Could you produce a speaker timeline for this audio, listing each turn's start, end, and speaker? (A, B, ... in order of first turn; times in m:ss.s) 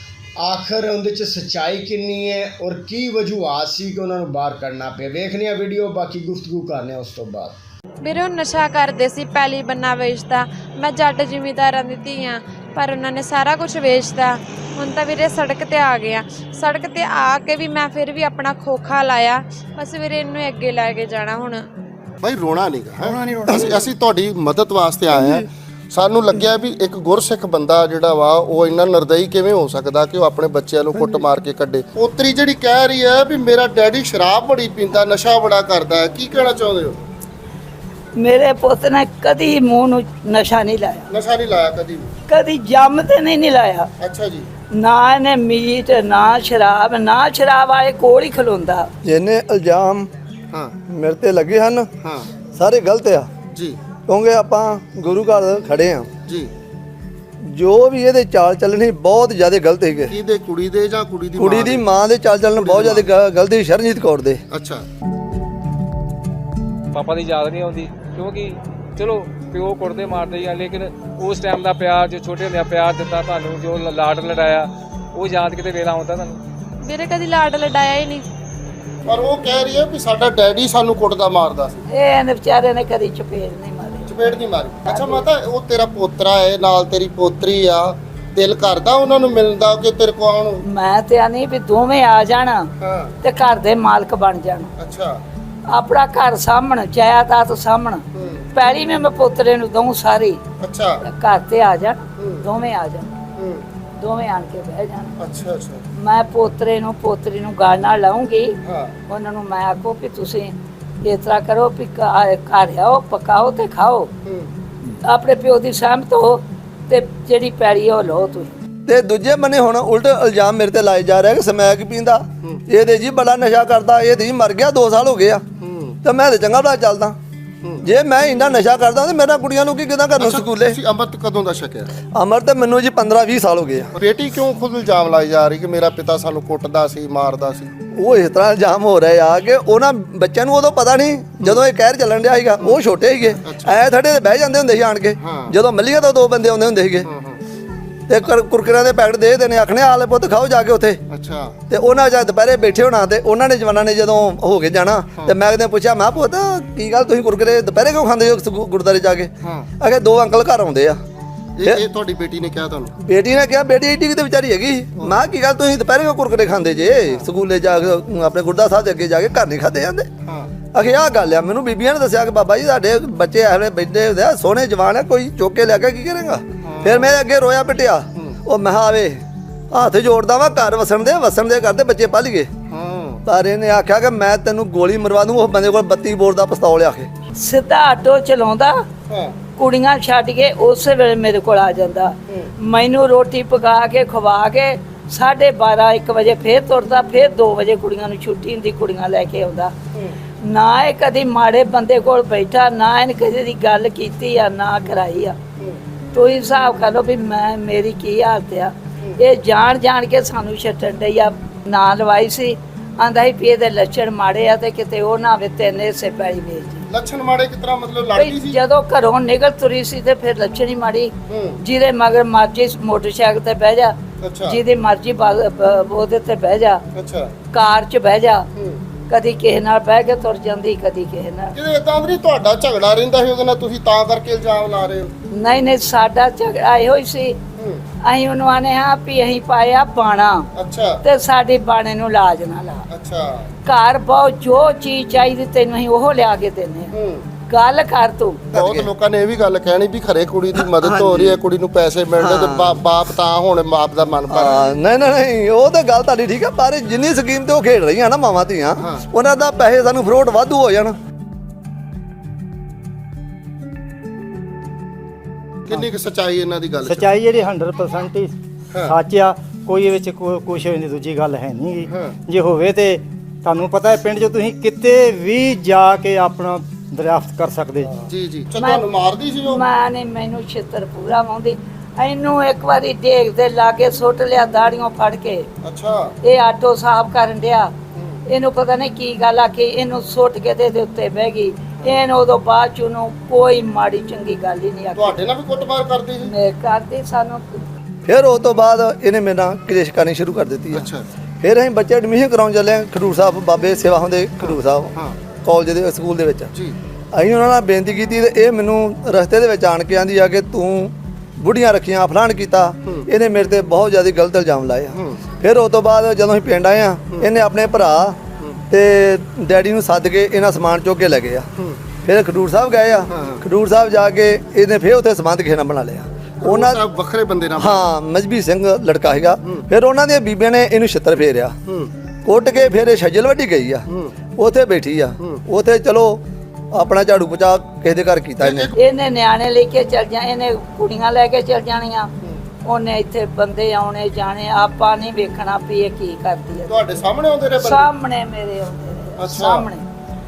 0:00.4-0:07.6 A
0:08.0-0:21.6 B
0:22.2-0:37.0 C
0:23.0-0:23.9 D
0:25.1-0:25.5 D
0:30.9-0:31.2 D
0:38.2-0:41.1 E
0:41.1-0:42.1 C
0:42.3-0:43.9 E
0:44.0-0:44.5 C
0:44.7-0:48.9 E
0:49.0-0:50.1 D
0:50.9-0:51.9 D
0:52.0-0:52.3 C
0:52.5-0:53.3 D
0:53.5-0:53.8 C
0:54.1-0:56.1 D
0:56.3-0:56.5 C
0:57.4-1:00.1 D
1:00.1-1:01.8 C
1:01.4-1:04.4 D
1:02.6-1:03.1 C
1:04.5-1:04.8 C
1:06.9-1:16.4 F
1:16.8-1:18.2 B
1:19.0-1:21.8 C
1:21.9-1:24.1 E
1:24.1-1:30.6 C
1:24.9-1:25.3 E
1:30.6-1:32.7 E
1:32.8-1:33.1 C
1:33.2-1:34.7 E
1:34.8-1:35.2 C
1:35.7-1:40.4 E
1:38.2-1:38.5 C
1:40.6-1:41.0 C
1:41.0-1:43.1 E
1:42.2-1:42.4 C
1:43.4-1:43.6 C
1:44.0-1:45.1 E
1:45.2-1:45.8 C
1:45.9-1:48.6 E
1:48.6-1:49.0 C
1:49.1-1:54.1 E
1:54.2-1:54.5 C
1:55.0-1:58.5 E
1:58.9-2:05.4 D
2:05.6-2:06.0 C
2:06.0-2:07.2 D
2:07.6-2:07.9 C
2:07.8-2:10.8 D
2:10.2-2:11.9 C
2:12.1-2:13.9 D
2:14.0-2:17.7 C
2:17.9-2:27.1 D
2:23.4-2:23.8 C
2:25.2-2:25.6 C
2:27.0-2:27.4 C
2:28.1-2:31.0 D
2:31.1-2:31.6 C
2:31.7-2:41.0 D
2:39.4-2:39.7 C
2:41.6-2:42.9 C
2:43.0-2:50.1 D
2:50.3-2:50.5 C
2:50.7-3:02.5 D
2:56.6-2:57.2 C
3:02.7-3:03.2 C
3:03.2-3:07.1 D
3:07.4-3:08.8 E
3:09.1-3:09.4 C
3:09.6-3:19.7 E
3:12.3-3:12.5 C
3:20.4-3:25.4 E
3:26.1-3:36.8 E
3:36.9-3:38.6 C
3:38.2-3:46.8 E
3:41.3-3:41.6 C
3:44.2-3:44.6 C
3:47.0-3:47.3 C
3:47.5-3:48.5 E
3:48.6-3:48.8 C
3:49.1-3:51.6 E
3:51.6-3:55.1 C
3:55.3-3:57.4 E
3:57.6-3:57.8 C
3:58.0-4:00.5 E
4:00.6-4:01.0 C
4:01.0-4:02.9 E
4:02.9-4:03.5 C
4:03.7-4:06.9 E
4:06.9-4:07.2 C
4:07.5-4:08.5 E
4:08.5-4:08.9 D
4:08.5-4:14.7 C
4:10.5-4:11.4 D
4:12.2-4:12.8 D
4:14.3-4:21.0 D
4:18.8-4:19.0 C
4:25.7-4:27.1 C
4:26.8-4:28.3 G
4:28.8-4:37.9 G
4:31.9-4:32.2 C
4:38.1-4:39.6 C
4:38.6-4:38.8 E
4:39.5-4:45.5 E
4:45.6-4:46.1 C
4:46.2-4:47.7 E
4:48.0-4:48.2 C
4:48.3-4:55.2 E
4:55.0-4:56.3 C
4:56.2-4:57.6 E
4:58.1-5:00.9 D
5:00.7-5:01.0 C
5:01.4-5:06.5 D
5:04.4-5:05.2 C
5:07.2-5:18.2 D
5:14.9-5:15.2 C
5:18.7-5:21.5 D
5:22.0-5:26.8 D
5:23.1-5:23.4 C
5:26.4-5:27.8 C
5:27.6-5:31.6 D
5:32.2-5:36.2 D
5:33.9-5:34.1 C
5:36.7-5:38.7 D
5:38.4-5:38.8 C
5:38.8-5:42.1 E
5:42.7-5:46.8 E
5:46.7-5:47.9 C
5:47.6-5:49.8 E
5:49.2-5:49.7 C